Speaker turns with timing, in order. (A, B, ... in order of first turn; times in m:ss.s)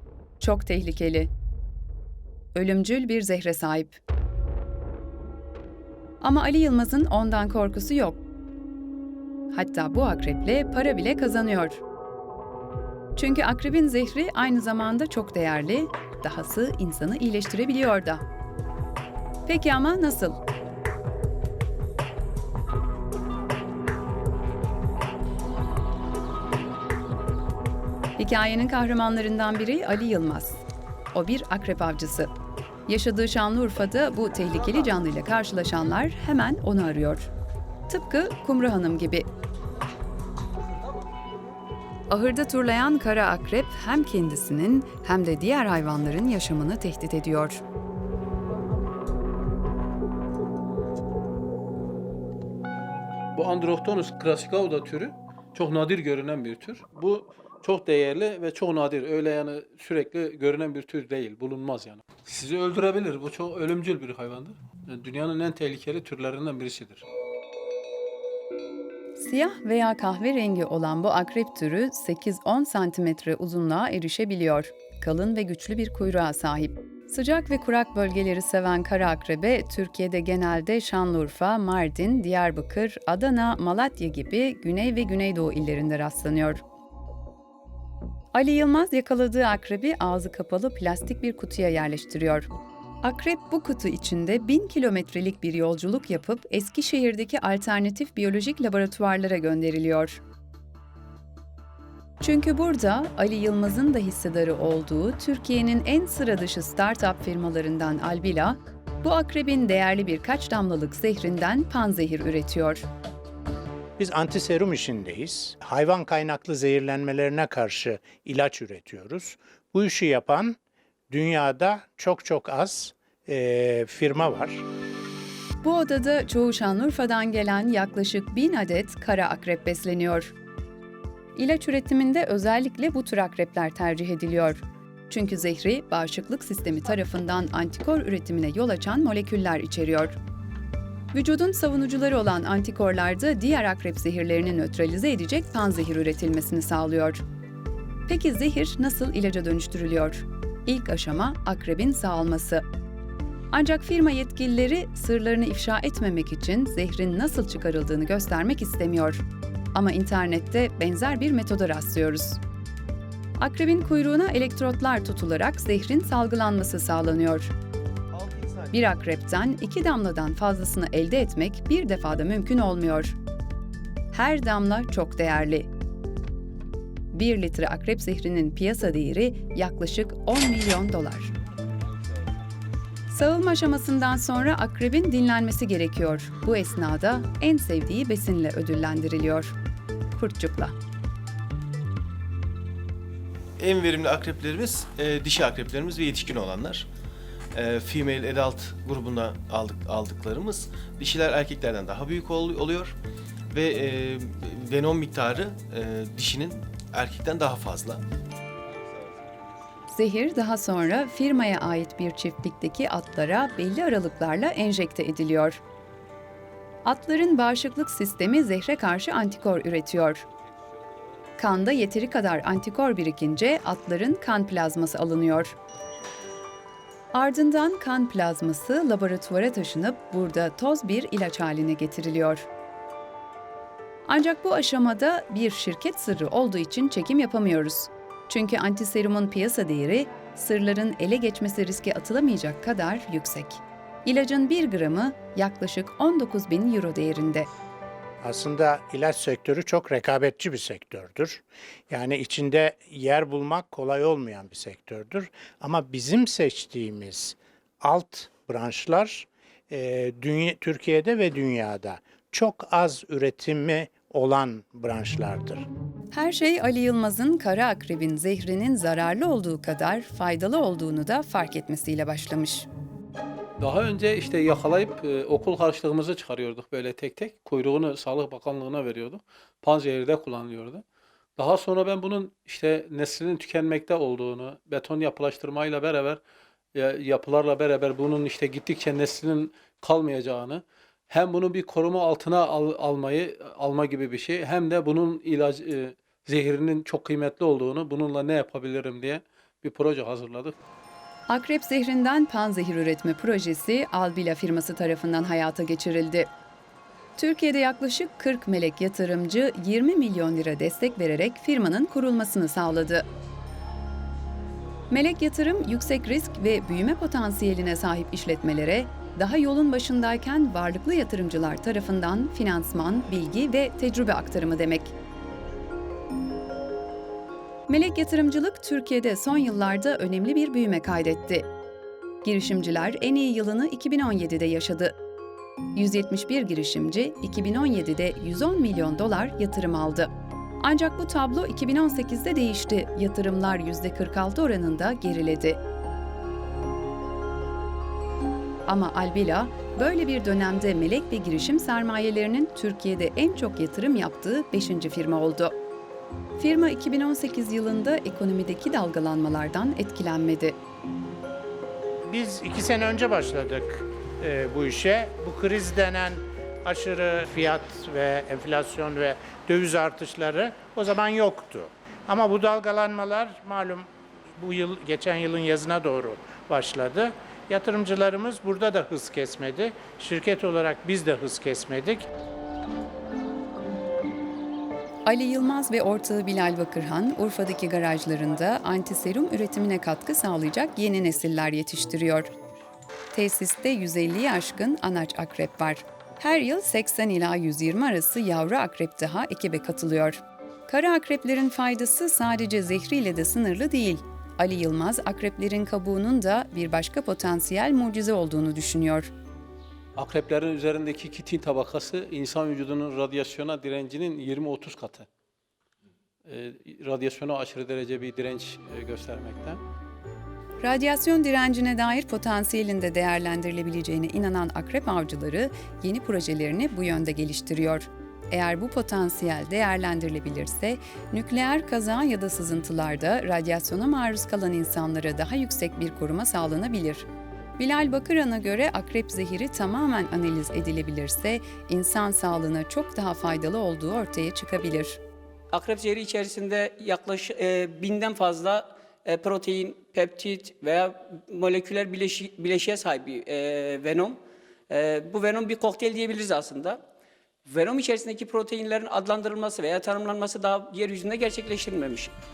0:00.4-0:01.3 A
0:02.5-0:04.0 A
0:06.2-0:08.2 A
0:09.5-0:11.8 A
0:13.2-0:18.2 A
0:19.4-0:20.4 A
0:28.2-0:30.6 A
0:31.1-0:32.3 A
0:32.9-0:37.3 A
0:37.9-0:39.3 A
0:42.1-0:47.6 A
0:53.3-1:07.0 B
1:09.1-1:26.6 A
1:28.3-1:32.5 A
1:33.0-1:40.2 A
1:42.2-1:52.9 A
1:54.0-2:00.6 C
2:01.1-2:04.6 C
2:05.6-2:10.3 A
2:11.4-2:20.2 A
2:21.1-2:27.2 A
2:28.1-2:32.6 A
2:33.5-2:42.4 A
2:43.4-2:47.5 A
2:48.1-2:48.8 D
2:48.7-2:53.2 A
2:54.1-2:55.7 A
2:57.1-3:01.3 A
3:03.1-3:09.5 A
3:10.1-3:10.7 A
3:13.6-3:16.9 D
3:17.5-3:22.9 D
3:23.5-3:28.0 D
3:29.9-3:35.6 A
3:36.8-3:40.2 A
3:41.4-3:45.6 A
3:47.1-3:52.5 A
3:54.1-4:07.5 A
4:08.2-4:25.6 C
4:26.1-4:32.7 A
4:33.6-4:40.8 B
4:41.4-4:46.2 B
4:46.7-5:00.6 B
5:01.3-5:06.3 A
5:07.2-5:13.0 A
5:14.9-5:24.9 A
5:27.7-5:31.5 A
5:32.2-5:35.0 A
5:35.7-5:45.6 A
5:48.7-5:55.5 A
5:56.4-6:00.6 A
6:02.1-6:22.1 C
6:25.0-6:32.3 A
6:33.1-6:49.1 A
6:50.0-6:55.1 B
6:56.2-6:59.6 B
7:00.6-7:17.0 A
7:17.6-7:25.0 A
7:25.5-7:34.2 E
7:34.7-7:36.8 E
7:37.5-7:42.1 E